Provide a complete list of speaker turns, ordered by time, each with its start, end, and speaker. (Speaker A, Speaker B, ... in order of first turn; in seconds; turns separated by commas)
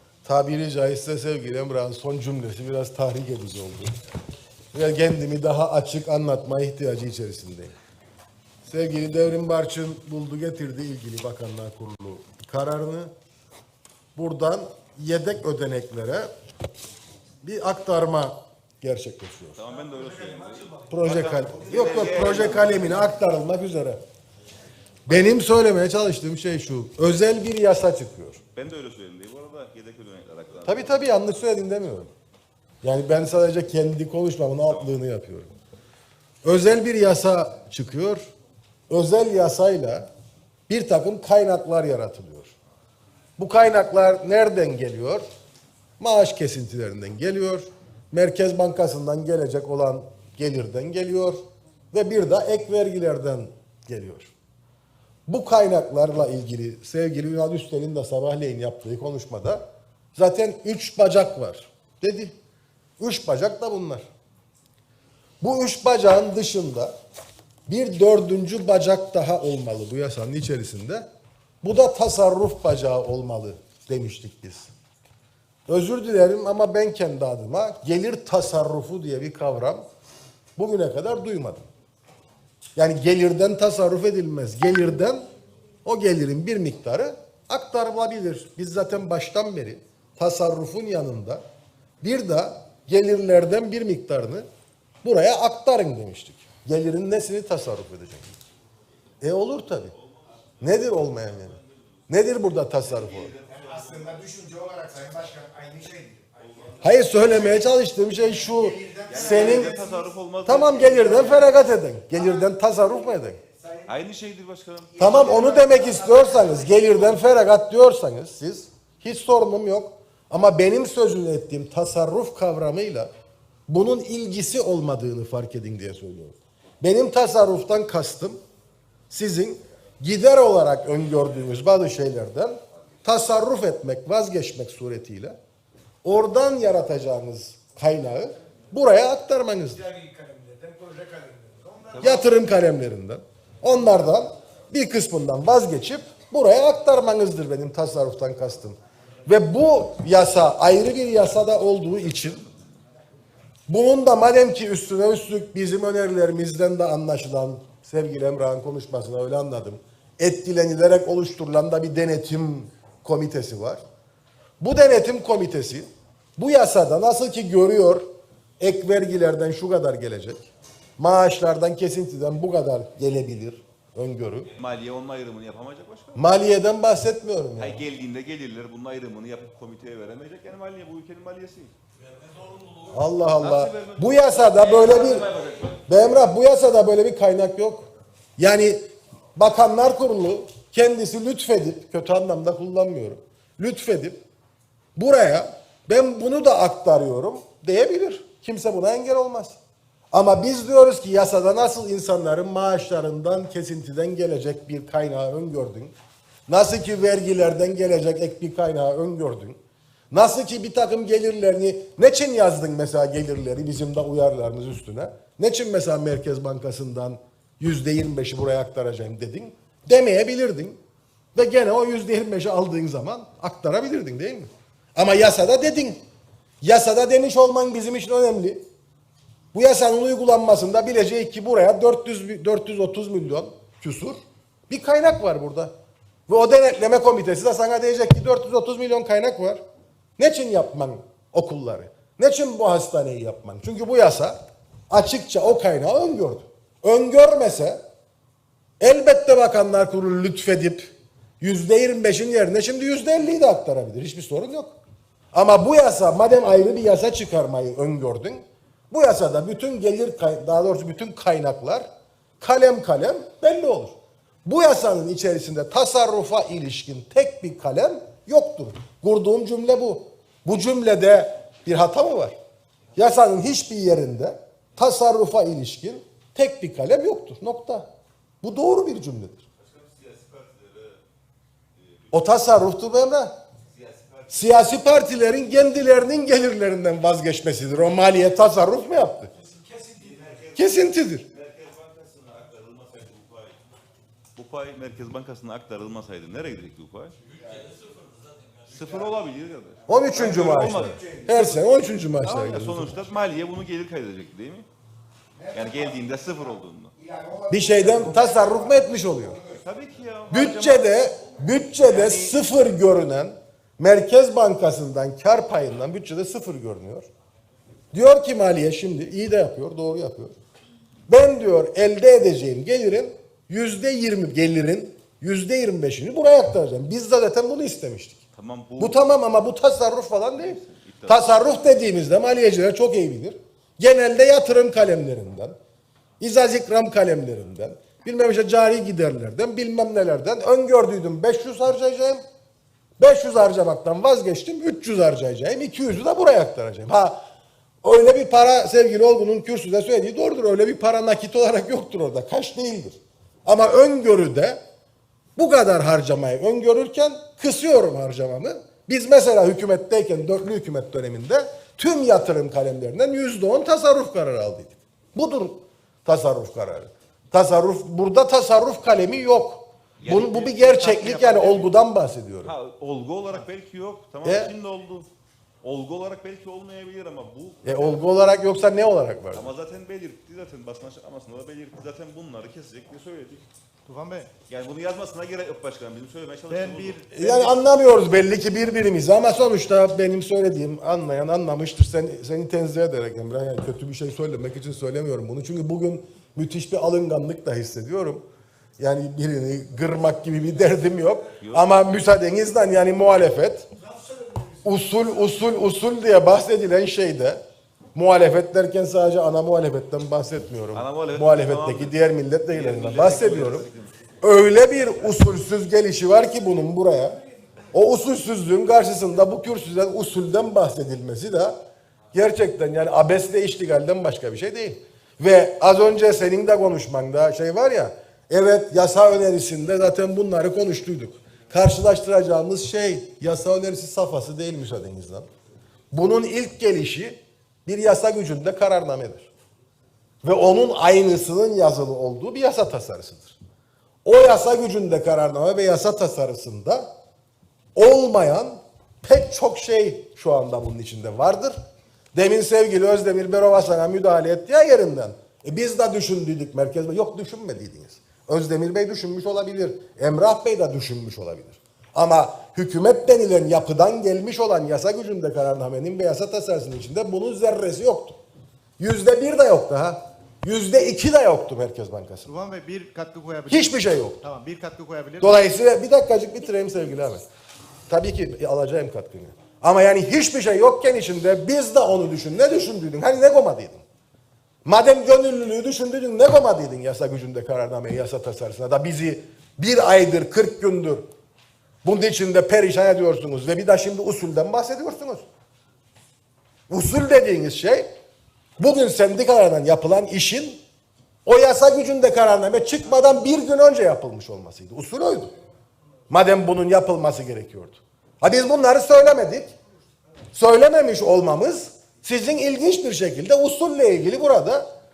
Speaker A: 0.2-3.9, Speaker A: 4.7-7.7, Speaker A: 8.7-13.1, Speaker A: 14.2-16.3, Speaker A: 17.4-19.6, Speaker B: 19.6-23.0, Speaker A: 20.9-24.0, Speaker A: 25.1-28.4, Speaker B: 28.6-30.9, Speaker A: 30.6-32.1, Speaker A: 32.8-35.5, Speaker A: 36.4-38.2, Speaker A: 38.9-40.1, Speaker A: 40.7-42.5, Speaker A: 43.4-45.2, Speaker A: 46.0-51.4, Speaker A: 51.9-54.3, Speaker A: 55.3-59.6, Speaker A: 60.1-62.3, Speaker A: 63.0-64.1, Speaker A: 65.4-66.9, Speaker A: 67.7-71.1, Speaker A: 71.6-74.7, Speaker A: 75.7-79.8, Speaker A: 80.6-81.7, Speaker A: 82.8-85.3, Speaker A: 85.8-91.4, Speaker A: 92.0-94.5, Speaker A: 95.0-98.3, Speaker A: 99.2-99.9, Speaker A: 100.6-101.6, Speaker A: 102.1-103.3, Speaker B: 102.8-104.3, Speaker C: 104.0-106.3, Speaker B: 106.4-106.8, Speaker A: 106.8-109.8, Speaker C: 108.9-109.7, Speaker B: 109.0-111.5, Speaker A: 110.5-113.4, Speaker B: 113.8-115.2, Speaker A: 115.0-123.1, Speaker A: 123.7-128.4, Speaker A: 129.1-135.4, Speaker A: 136.0-139.8, Speaker C: 139.9-141.9, Speaker B: 141.9-142.2, Speaker A: 142.0-152.4, Speaker A: 153.7-163.8, Speaker A: 164.6-168.1, Speaker A: 168.6-170.5, Speaker A: 171.0-174.5, Speaker B: 174.6-176.2, Speaker A: 176.2-177.8, Speaker B: 177.6-181.7, Speaker A: 182.9-185.3, Speaker B: 183.4-185.8, Speaker A: 185.9-188.8, Speaker A: 189.4-194.2, Speaker A: 195.0-199.6, Speaker A: 200.1-205.9, Speaker A: 206.5-209.6, Speaker A: 210.1-220.8, Speaker A: 221.3-226.0, Speaker A: 226.6-228.6, Speaker A: 229.5-234.2, Speaker A: 234.7-235.7, Speaker A: 236.3-239.6, Speaker A: 240.2-244.4, Speaker A: 244.9-247.8, Speaker A: 248.8-254.7, Speaker A: 255.3-261.9, Speaker A: 262.4-272.4, Speaker A: 272.9-277.9, Speaker A: 278.4-279.4, Speaker B: 279.6-281.0, Speaker B: 281.8-282.3, Speaker A: 282.1-283.3, Speaker B: 283.7-284.6, Speaker A: 284.3-289.3, Speaker B: 289.9-293.6, Speaker A: 290.6-291.3, Speaker B: 294.4-297.2, Speaker B: 298.6-301.6, Speaker A: 299.9-303.0, Speaker B: 302.2-304.7, Speaker B: 305.5-306.9, Speaker A: 307.5-309.4, Speaker B: 309.6-311.1, Speaker A: 310.3-317.1, Speaker B: 311.8-312.4, Speaker A: 317.9-320.4, Speaker A: 321.1-328.2, Speaker B: 328.3-329.0, Speaker A: 328.8-335.6, Speaker B: 330.4-331.4, Speaker A: 336.2-342.2, Speaker A: 343.0-347.2, Speaker A: 347.8-354.6, Speaker A: 355.4-372.5, Speaker B: 370.0-371.4, Speaker D: 371.0-371.7, Speaker B: 372.4-375.1, Speaker A: 374.2-374.6, Speaker B: 375.6-378.0, Speaker A: 377.6-379.5, Speaker B: 379.3-383.4, Speaker D: 383.9-384.3, Speaker B: 384.5-387.1, Speaker D: 386.5-387.6, Speaker A: 387.1-398.2, Speaker A: 398.8-403.7, Speaker B: 401.4-401.7, Speaker A: 404.6-407.4, Speaker A: 407.9-413.7, Speaker B: 410.7-413.9, Speaker A: 414.2-417.2, Speaker A: 417.7-421.6, Speaker A: 422.1-435.3, Speaker A: 435.9-439.3, Speaker A: 440.2-443.4, Speaker A: 444.1-446.9, Speaker A: 447.8-451.5, Speaker A: 452.1-468.2, Speaker A: 468.8-472.3, Speaker D: 472.3-475.4, Speaker A: 473.5-474.2, Speaker A: 475.2-477.2, Speaker A: 477.9-483.8, Speaker A: 484.6-491.1, Speaker A: 491.8-495.2, Speaker A: 496.7-497.9, Speaker A: 498.6-500.6, Speaker A: 501.3-505.3, Speaker A: 506.1-509.5, Speaker A: 510.3-514.7